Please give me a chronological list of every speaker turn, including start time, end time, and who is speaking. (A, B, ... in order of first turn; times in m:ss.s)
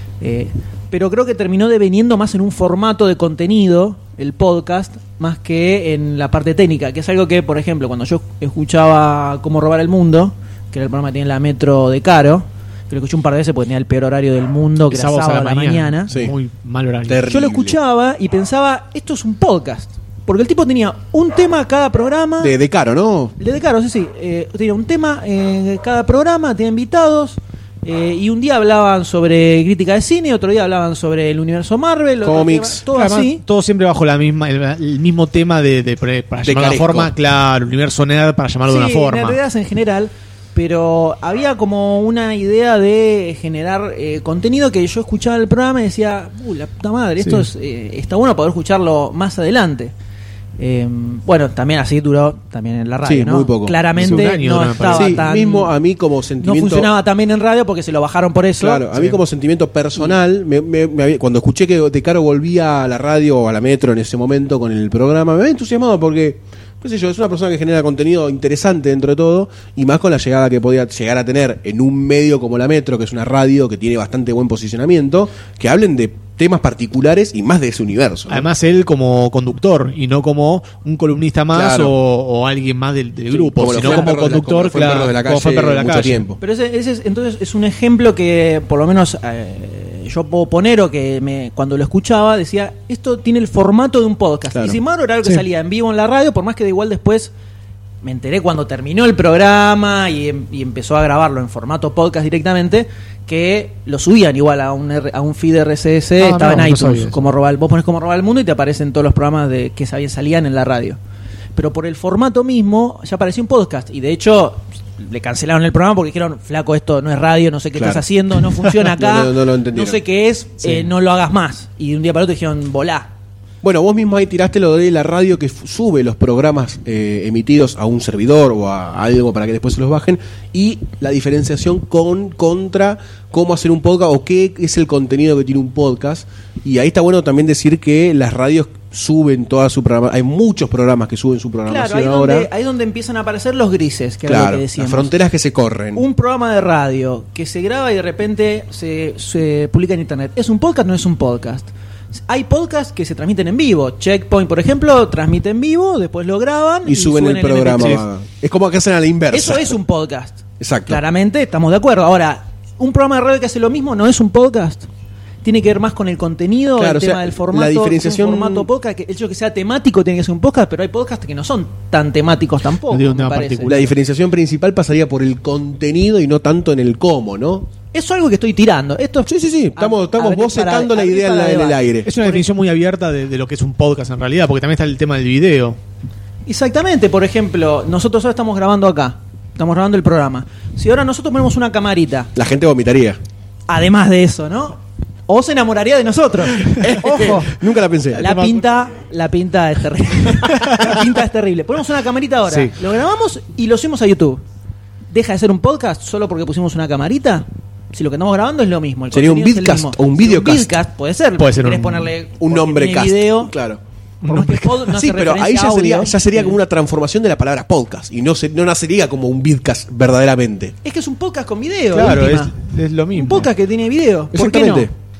0:00.2-0:16.1 A
0:14.9-0:17.3 B
0:16.1-0:16.3 C
0:17.1-0:17.8 C
0:17.3-0:22.5 A
0:22.4-0:23.4 C
0:23.4-0:33.4 A
0:32.2-0:32.8 C
0:32.9-0:39.4 B
0:36.4-0:37.1 C
0:38.6-0:49.9 A
0:47.2-0:47.5 B
0:50.6-0:55.7 A
0:53.0-0:54.3 C
0:54.0-0:55.2 B
0:54.9-0:56.9 C
0:56.4-0:58.9 A
0:58.6-1:18.5 C
0:58.9-0:59.2 B
1:18.3-1:26.2 B
1:21.5-1:21.9 C
1:23.3-1:26.4 C
1:23.7-1:24.1 A
1:26.4-1:37.3 A
1:34.5-1:34.8 C
1:38.0-1:51.0 A
1:46.2-1:47.2 B
1:51.6-2:03.1 A
1:57.8-1:58.0 C
1:58.8-2:00.0 C
2:00.6-2:00.9 B
2:03.6-2:22.5 C
2:21.6-2:25.1 A
2:24.3-2:26.0 C
2:25.9-2:38.0 A
2:36.8-2:39.7 C
2:37.8-2:38.0 B
2:39.3-2:44.9 A
2:40.6-2:41.0 C
2:45.4-2:53.8 A
2:46.8-2:48.7 C
2:52.9-2:53.8 B
2:53.6-2:57.7 C
2:57.9-3:02.4 A
2:59.3-3:02.1 C
3:02.0-3:05.8 B
3:06.4-3:12.3 A
3:12.3-3:13.2 C
3:13.7-3:17.5 A
3:16.7-3:17.0 B
3:16.7-3:18.3 C
3:18.1-3:24.4 A
3:18.2-3:18.6 B
3:22.5-3:22.7 B
3:25.1-3:33.5 A
3:29.1-3:30.7 C
3:31.4-3:32.1 B
3:32.4-3:33.8 C
3:34.2-3:34.7 B
3:34.3-3:36.6 A
3:34.8-3:40.7 C
3:40.8-3:42.5 A
3:41.9-3:43.5 B
3:43.1-3:44.9 A
3:44.3-3:44.9 C